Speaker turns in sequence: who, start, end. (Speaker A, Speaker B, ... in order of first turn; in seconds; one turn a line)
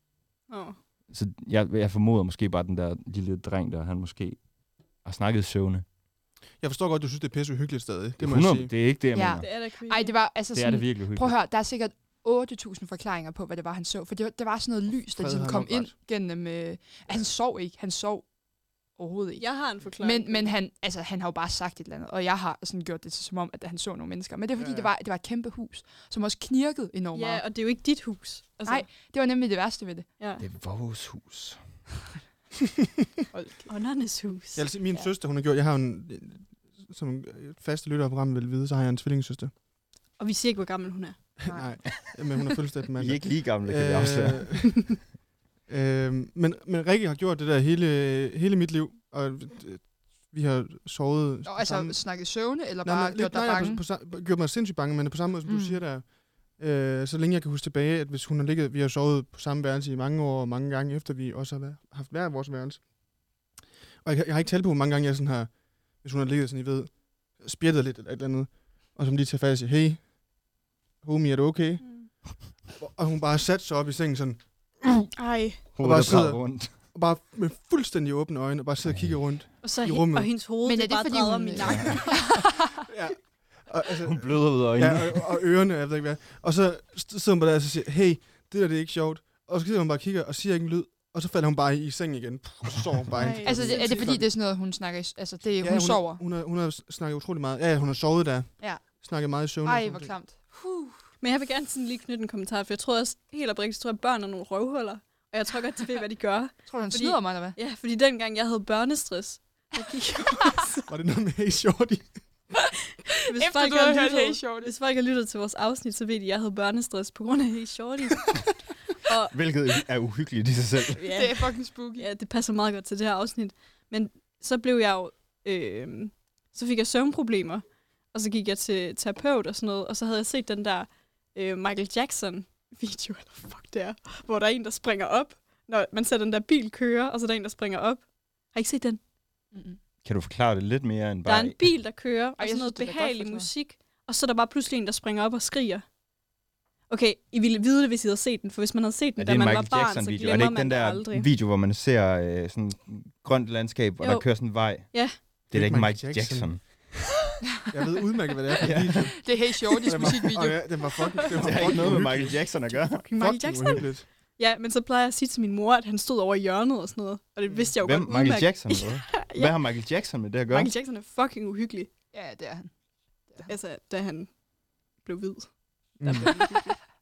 Speaker A: 0.5-0.8
Speaker B: 1.1-5.8
Speaker C: 6.6-8.8
Speaker B: 8.2-9.5
Speaker D: 9.1-18.4
Speaker A: 9.4-10.2
Speaker B: 10.5-11.4
Speaker C: 15.1-15.9
Speaker D: 18.9-27.5
Speaker A: 19.4-20.6
Speaker C: 24.6-24.9
Speaker A: 27.1-28.9
Speaker D: 28.6-30.1
Speaker A: 30.2-30.4
Speaker B: 30.4-31.8
Speaker D: 33.3-33.7
Speaker A: 33.7-35.0
Speaker C: 34.5-39.5
Speaker A: 40.2-41.2
Speaker C: 41.4-45.0
Speaker D: 41.5-42.0
Speaker B: 43.0-44.8
Speaker C: 45.7-63.1
Speaker D: 51.5-53.8
Speaker D: 55.5-55.8
Speaker C: 64.0-75.1
Speaker A: 71.8-72.1
Speaker A: 75.2-75.6
Speaker B: 75.8-76.8
Speaker C: 75.8-80.3
Speaker B: 78.8-79.5
Speaker A: 79.6-82.5
Speaker D: 80.6-82.4
Speaker C: 82.9-94.3
Speaker B: 84.1-85.2
Speaker A: 93.2-94.1
Speaker D: 93.4-96.2
Speaker C: 95.6-100.1
Speaker D: 98.6-99.0
Speaker D: 99.6-101.0
Speaker A: 101.2-110.9
Speaker D: 106.7-107.6
Speaker C: 110.9-112.2
Speaker A: 113.3-119.5
Speaker D: 113.3-114.7
Speaker B: 119.3-121.1
Speaker A: 121.0-139.0
Speaker D: 121.1-122.1
Speaker D: 139.5-139.8
Speaker B: 140.0-141.7
Speaker A: 141.2-145.9
Speaker D: 142.4-143.5
Speaker A: 146.9-151.3
Speaker B: 149.2-156.6
Speaker A: 154.0-155.2
Speaker C: 155.5-156.6
Speaker C: 157.7-159.3
Speaker B: 158.6-159.1
Speaker D: 159.2-160.7
Speaker C: 159.8-162.5
Speaker B: 161.4-163.1
Speaker A: 162.7-169.6
Speaker C: 163.2-164.1
Speaker B: 167.8-170.7
Speaker A: 170.5-171.9
Speaker D: 172.1-172.7
Speaker D: 173.3-173.5
Speaker A: 173.4-174.4
Speaker A: 174.9-176.8
Speaker C: 176.0-176.4
Speaker D: 176.0-176.7